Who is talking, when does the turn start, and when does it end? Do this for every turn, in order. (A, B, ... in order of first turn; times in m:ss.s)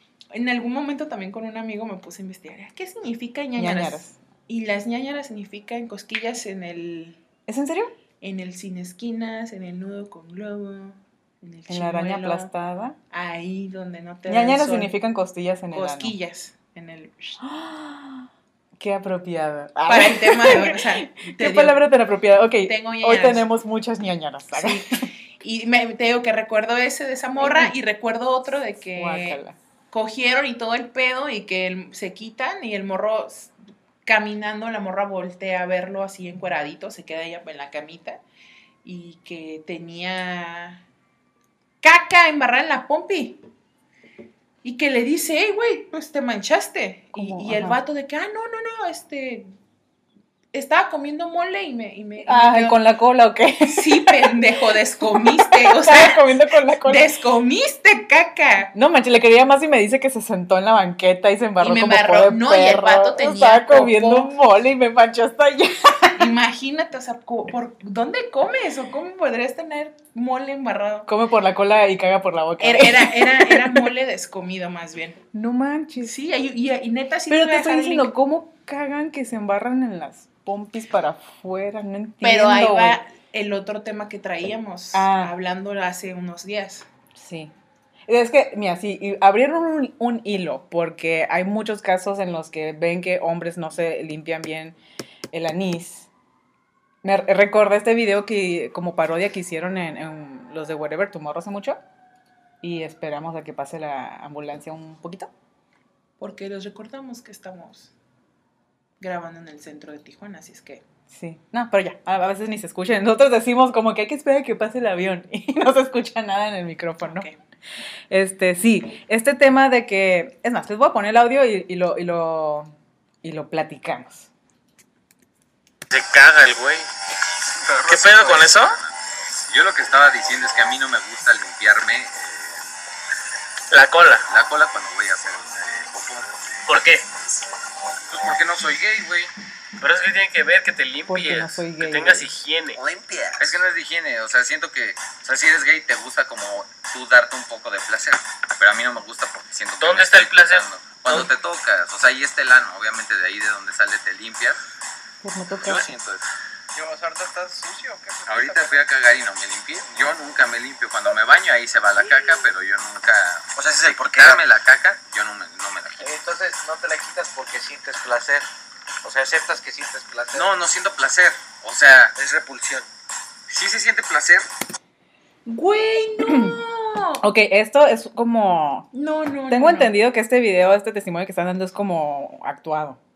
0:00.3-0:07.2 A
0:03.6-0:04.2 B
0:07.5-0:07.9 B
0:08.2-0:12.5 A
0:11.7-0:13.0 B
0:13.1-0:15.0 A
0:14.3-0:16.1 B
0:15.7-0:17.4 A
0:17.4-0:18.3 B
0:18.8-0:25.0 B
0:19.9-0:21.8 A
0:22.6-0:23.5 A
0:24.5-0:29.4 A
0:27.4-0:27.7 B
0:28.9-0:29.5 B
0:29.9-0:33.5 A
0:34.0-0:38.2 A
0:38.8-0:40.8 A
0:41.8-0:43.4 A
0:44.6-0:49.5 A
0:47.1-0:47.8 B
0:50.5-0:52.8 A
0:52.2-0:54.4 B
0:53.6-0:56.3 A
0:55.1-0:57.1 B
0:56.8-0:58.7 A
0:58.7-1:06.2 B
1:01.6-1:04.3 A
1:06.2-1:11.1 A
1:11.1-1:13.9 B
1:12.6-1:15.2 A
1:15.3-1:16.1 B
1:16.0-1:18.1 A
1:17.3-1:23.0 B
1:22.2-1:26.9 A
1:24.9-1:25.3 B
1:27.1-1:27.5 B
1:28.1-1:34.8 B
1:35.3-1:36.1 B
1:37.0-1:41.8 B
1:42.6-1:45.3 B
1:46.2-1:47.9 A
1:49.0-1:50.8 A
1:51.1-1:57.3 B
1:57.0-1:57.4 A
1:58.1-2:02.7 B
2:03.2-2:04.3 B
2:05.9-2:06.8 C
2:07.7-2:08.9 D
2:07.7-2:08.8 C
2:09.4-2:12.6 D
2:13.7-2:14.3 C
2:14.3-2:16.3 D
2:16.7-2:17.0 C
2:18.1-2:19.3 D
2:19.8-2:22.8 C
2:21.1-2:22.3 B
2:22.7-2:23.6 E
2:23.4-2:34.6 D
2:29.8-2:31.3 C
2:35.2-2:35.9 B
2:35.5-2:36.2 D
2:36.7-2:38.9 E
2:38.3-2:46.1 D
2:43.6-2:44.4 E
2:46.0-2:48.4 E
2:49.0-2:50.6 E
2:50.3-2:52.2 D
2:52.1-2:52.8 E
2:53.5-2:54.4 D
2:55.4-2:57.2 A
2:56.2-2:56.6 B
2:57.2-2:58.9 B
2:58.9-2:59.9 A
2:59.5-3:03.0 B